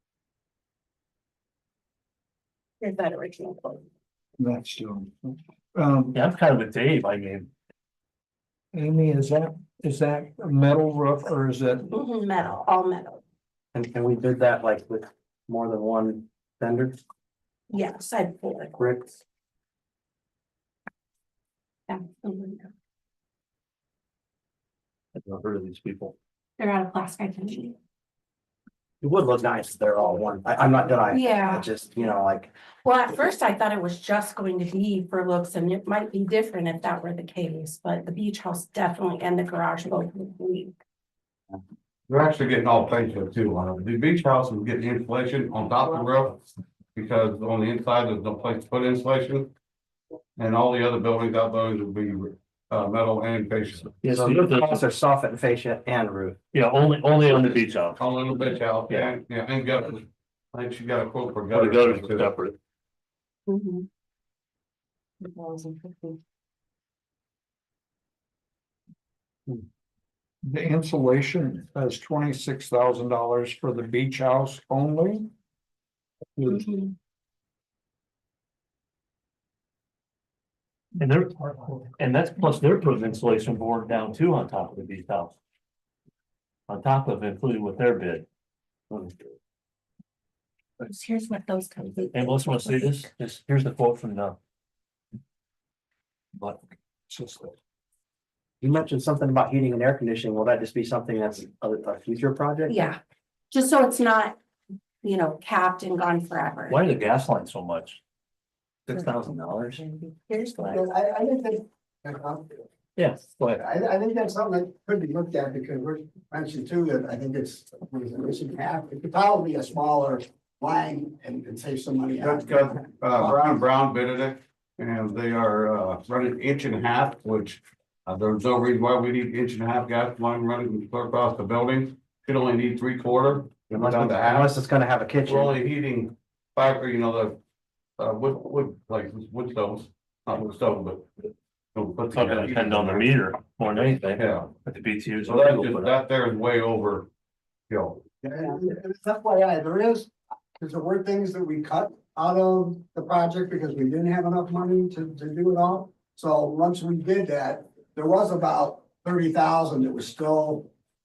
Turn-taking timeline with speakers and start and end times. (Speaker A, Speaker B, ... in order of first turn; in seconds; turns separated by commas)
Speaker A: 2.8-3.8, Speaker B: 4.4-6.2, Speaker C: 6.1-7.5, Speaker B: 8.7-11.9, Speaker A: 11.9-13.2, Speaker D: 13.7-17.0, Speaker A: 17.7-18.9, Speaker D: 18.8-19.1, Speaker A: 21.9-22.7, Speaker C: 25.1-26.1, Speaker A: 26.6-27.8, Speaker D: 29.0-32.5, Speaker A: 31.1-31.7, Speaker A: 32.8-40.7, Speaker E: 42.1-46.4, Speaker E: 46.9-49.5, Speaker E: 50.4-54.5, Speaker C: 54.0-54.8, Speaker D: 54.5-56.4, Speaker C: 56.5-59.1, Speaker E: 58.0-62.3, Speaker C: 61.5-62.5, Speaker A: 63.5-63.9, Speaker A: 65.2-66.2, Speaker B: 70.4-75.3, Speaker B: 76.4-76.7, Speaker C: 81.0-85.4, Speaker C: 86.7-88.2, Speaker A: 90.8-92.9, Speaker C: 92.1-94.4, Speaker B: 97.1-97.5, Speaker D: 98.6-102.7, Speaker A: 102.7-103.0, Speaker A: 103.5-104.4, Speaker A: 105.0-106.8, Speaker C: 106.7-108.0, Speaker C: 108.9-110.9, Speaker A: 110.3-110.7, Speaker F: 110.6-112.6, Speaker C: 113.0-113.6, Speaker F: 113.6-123.4, Speaker E: 122.2-134.5, Speaker D: 133.7-135.5, Speaker E: 135.2-137.4, Speaker E: 138.0-143.1, Speaker C: 142.1-146.0, Speaker E: 144.2-144.5, Speaker E: 145.2-147.1, Speaker E: 147.7-148.0, Speaker F: 148.2-160.7